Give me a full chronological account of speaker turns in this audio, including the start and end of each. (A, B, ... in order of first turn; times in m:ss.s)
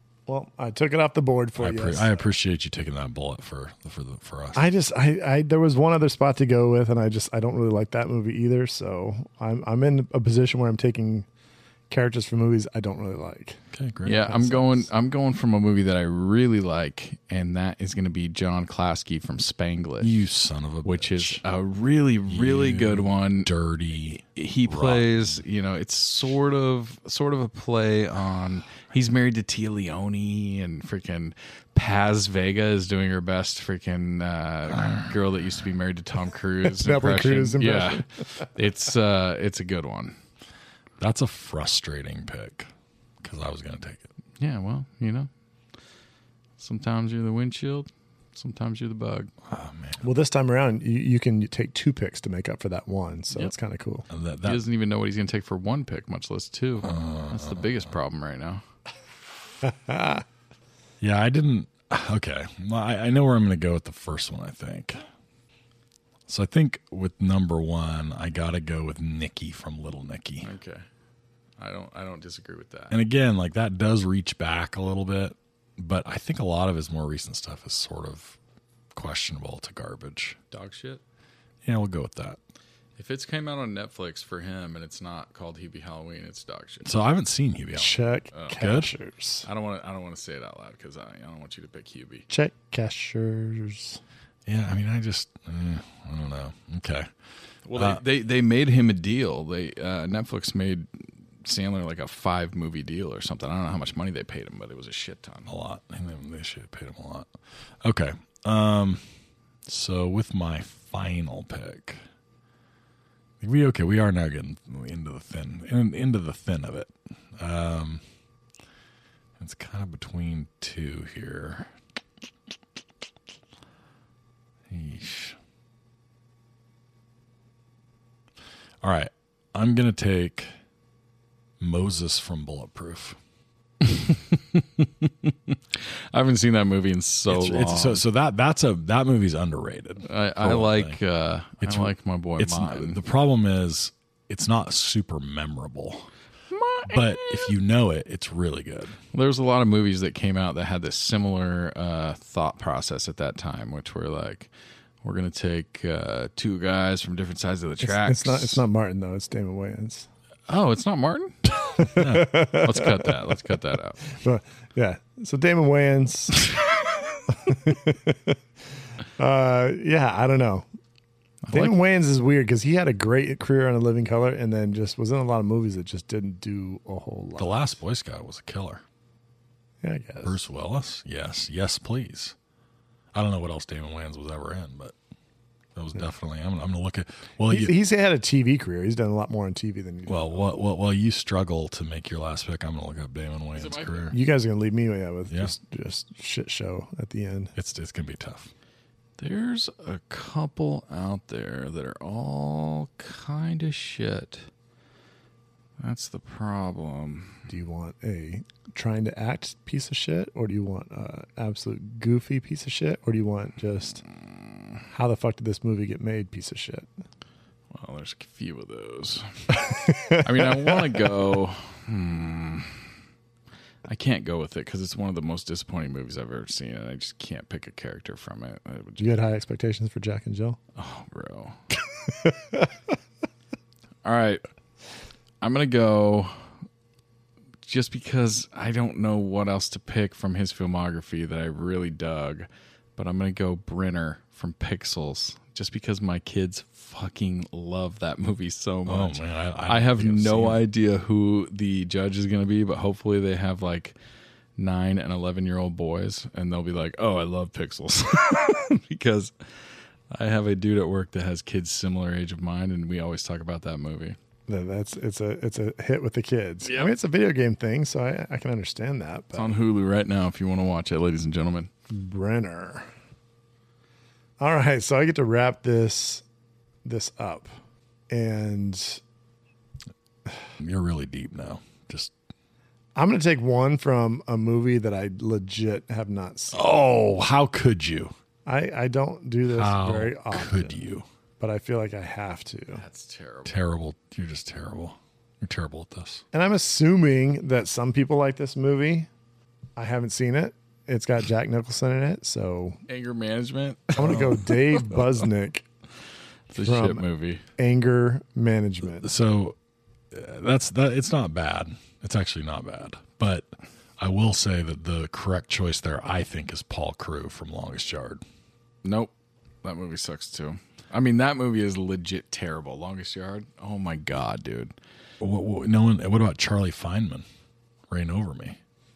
0:00.3-0:02.3 A
0:01.6-0:04.6 B
0:04.5-0:11.2 A
0:11.9-0:13.6 A
0:13.7-0:14.5 B
0:14.0-0:20.2 C
0:20.0-0:21.4 B
0:20.8-0:23.5 C
0:22.3-0:25.4 B
0:24.4-0:40.2 C
0:34.7-0:35.1 B
0:36.7-0:38.4 A
0:41.0-0:44.1 B
0:44.4-0:45.3 C
0:46.6-0:49.3 C
0:49.5-0:50.1 B
0:50.0-0:54.1 A
0:54.1-0:54.6 B
0:54.4-0:58.6 C
0:56.8-0:57.9 B
0:59.6-1:00.2 A
1:01.0-1:05.0 B
1:06.3-1:10.5 B
1:10.4-1:10.8 C
1:11.6-1:13.0 C
1:12.9-1:18.4 B
1:18.9-1:20.4 B
1:20.5-1:21.0 C
1:21.6-1:22.4 B
1:23.0-1:26.9 C
1:26.8-1:28.9 B
1:27.7-1:29.5 A
1:28.3-1:28.6 C
1:29.4-1:32.2 C
1:32.3-1:34.0 A
1:34.5-1:37.1 B
1:37.6-1:40.9 C
1:37.8-1:38.0 B
1:41.4-1:45.5 C
1:45.5-1:47.3 B
1:47.8-1:49.0 B
1:49.6-1:52.0 B
1:53.4-1:58.0 B
1:59.4-2:01.7 B
2:04.7-2:05.4 B
2:08.8-2:10.5 B
2:11.6-2:13.2 B
2:13.9-2:18.0 C
2:17.3-2:21.0 B
2:20.0-2:23.0 C
2:21.6-2:26.1 B
2:26.5-2:27.5 C
2:26.9-2:29.0 B
2:29.1-2:34.5 C
2:35.0-2:38.6 C
2:37.8-2:40.1 A
2:40.5-2:41.4 C
2:41.8-2:43.2 A
2:41.9-2:42.5 B
2:42.5-2:44.0 C
2:44.1-2:46.5 A
2:47.3-2:48.4 A
2:49.2-2:50.6 A
2:51.4-2:51.8 C
2:51.5-2:57.7 A
2:57.4-2:58.8 B
2:59.8-3:00.4 A
3:00.2-3:02.3 B
3:03.1-3:04.9 B
3:05.7-3:07.7 B
3:07.5-3:10.5 A
3:10.1-3:14.2 B
3:13.5-3:14.1 C
3:14.1-3:17.5 A
3:17.6-3:18.5 B
3:19.2-3:24.5 C
3:25.8-3:27.4 C
3:27.5-3:34.0 A
3:34.9-3:36.9 A
3:37.7-3:42.8 C
3:39.9-3:40.7 A
3:43.8-3:49.1 C
3:49.0-3:50.6 A
3:50.8-3:51.6 C
3:52.1-3:52.7 A
3:54.0-3:54.4 C
3:55.4-3:56.4 C
3:57.6-4:14.0 C
4:08.8-4:10.6 B
4:14.6-4:19.3 C
4:20.1-4:24.2 C
4:24.5-4:29.5 A
4:26.6-4:26.9 C
4:29.3-4:31.7 C
4:31.9-4:32.8 A
4:34.4-4:36.2 A
4:36.8-4:37.5 A
4:38.1-4:39.0 A
4:40.6-4:42.1 B
4:43.0-4:46.6 A
4:46.5-4:48.1 B
4:48.4-4:50.8 A
4:49.5-4:51.0 B
4:51.4-4:52.8 A
4:52.7-4:53.6 C
4:53.4-4:56.2 B
4:56.3-4:59.1 A
4:59.8-5:02.8 A
5:02.9-5:04.9 C
5:04.0-5:05.6 A
5:06.5-5:07.4 C
5:06.6-5:07.0 A
5:07.6-5:09.1 A
5:08.9-5:09.6 B
5:10.1-5:18.2 B
5:18.8-5:19.1 C
5:19.6-5:24.7 C
5:25.2-5:27.2 B
5:27.9-5:28.6 B